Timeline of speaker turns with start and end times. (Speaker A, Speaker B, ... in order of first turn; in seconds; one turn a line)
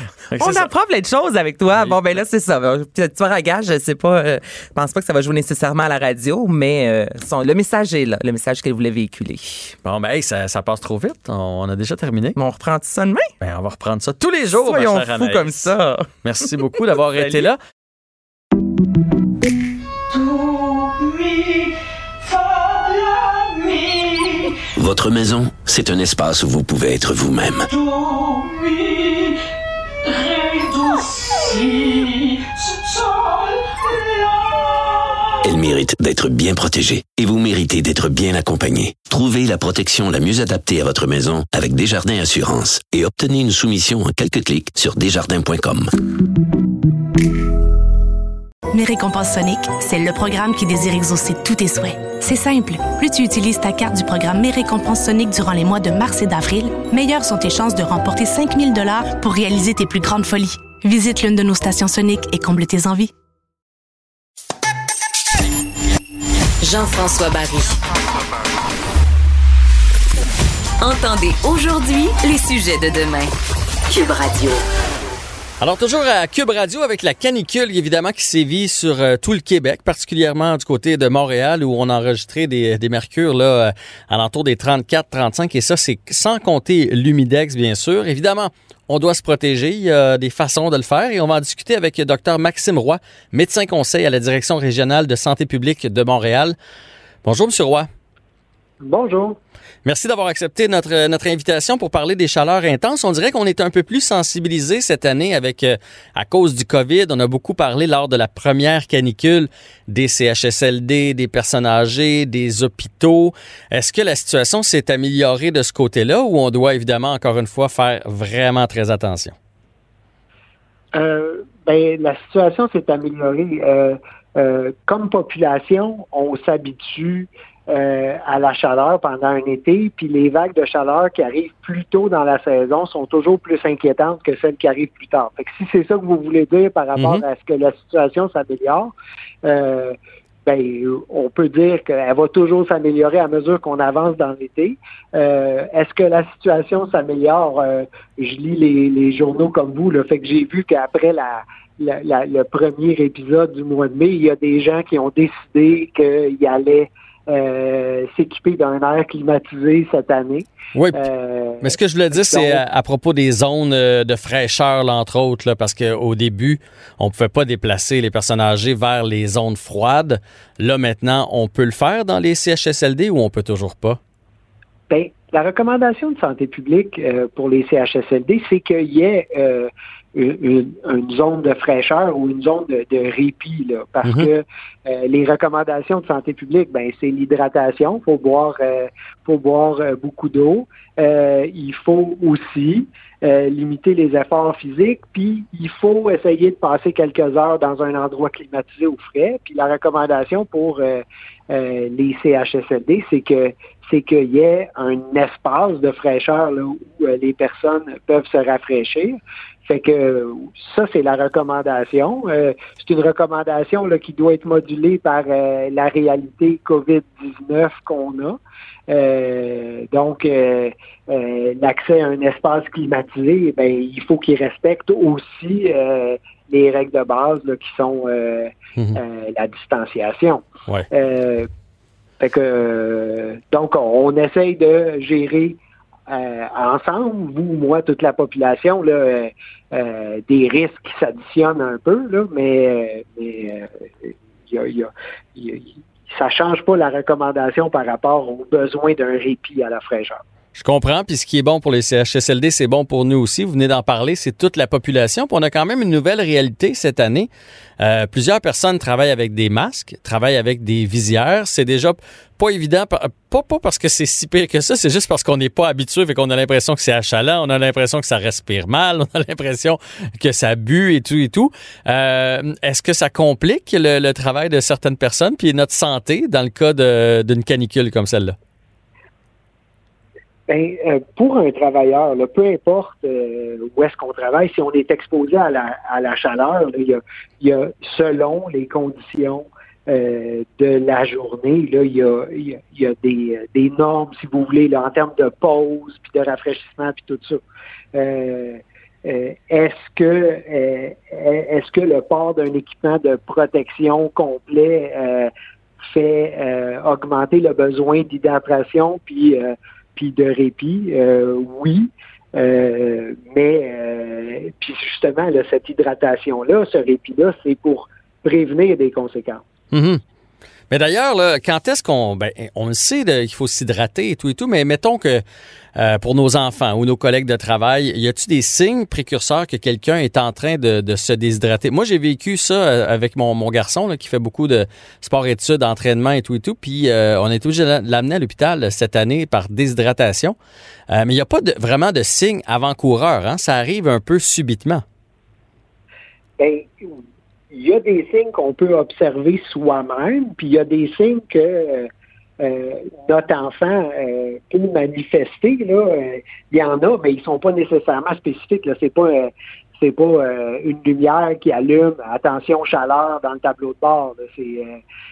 Speaker A: 0.3-0.7
Speaker B: 0.4-9.7
Speaker A: 1.7-2.2
Speaker A: 9.8-12.4
Speaker B: 12.3-13.3
Speaker A: 13.4-17.6
Speaker B: 14.5-16.1
Speaker B: 17.1-17.5
Speaker C: 24.8-27.7
Speaker C: 35.4-45.9
Speaker D: 48.7-63.1
Speaker E: 66.6-67.8
Speaker E: 70.8-73.3
Speaker E: 73.9-74.6
Speaker A: 75.6-96.5
Speaker A: 97.2-97.9
Speaker F: 98.8-99.4
Speaker A: 99.8-119.3
Speaker F: 120.9-138.9
Speaker A: 137.0-137.2
Speaker F: 139.4-162.6
Speaker A: 160.7-161.0
Speaker A: 161.6-174.0
Speaker F: 174.9-231.5
Speaker F: 232.2-235.6
Speaker F: 236.1-250.2
Speaker A: 250.6-278.4
Speaker F: 280.5-297.4
Speaker F: 297.9-305.3
Speaker F: 305.8-319.4
Speaker A: 319.7-320.0
Speaker A: 320.7-325.2
Speaker A: 325.8-340.4
Speaker A: 340.9-344.8
Speaker F: 346.4-346.9
Speaker F: 347.5-351.9
Speaker F: 352.4-364.8